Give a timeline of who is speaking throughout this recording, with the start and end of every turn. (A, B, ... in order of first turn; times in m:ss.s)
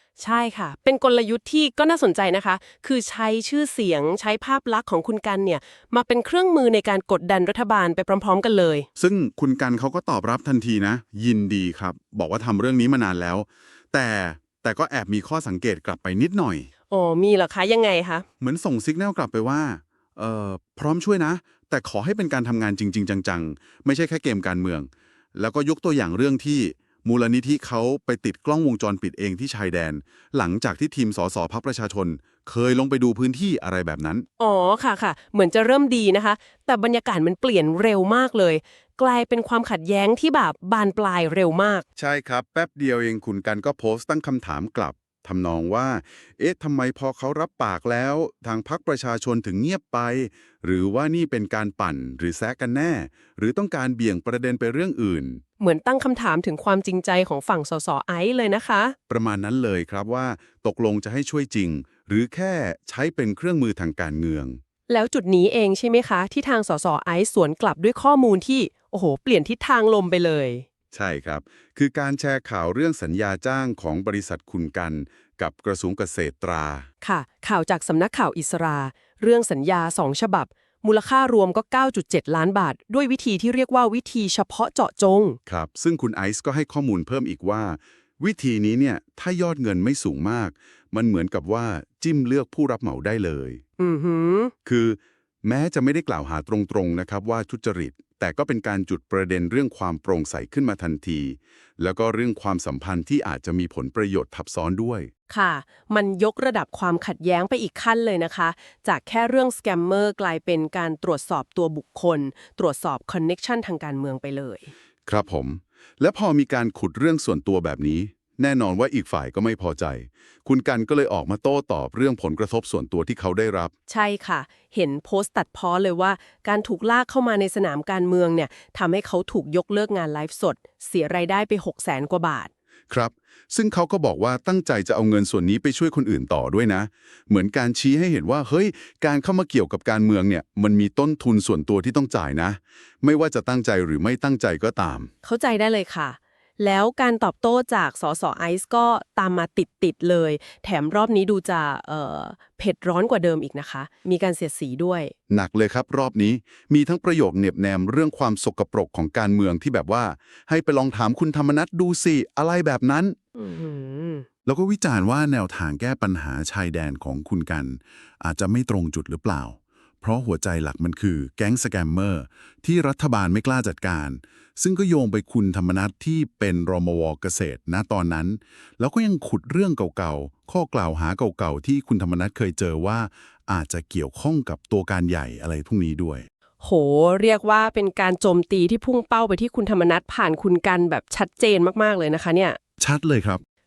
0:00.2-0:08.9 A
0:09.0-0:16.7 B
0:16.9-0:18.2 A
0:18.4-0:34.3 B
0:34.4-0:41.8 A
0:42.0-0:55.4 B
0:55.6-0:59.0 A
0:59.1-1:04.6 B
1:04.9-1:10.7 A
1:10.9-1:16.9 B
1:17.0-1:25.4 A
1:25.5-1:33.6 B
1:33.8-1:34.5 A
1:34.7-1:45.1 B
1:45.3-1:54.7 A
1:55.1-2:03.7 B
2:03.9-2:12.5 A
2:12.9-2:25.1 B
2:25.2-2:35.1 A
2:35.3-2:43.2 B
2:43.4-2:44.3 A
2:44.5-3:06.2 B
3:06.6-3:12.6 A
3:12.8-3:13.4 B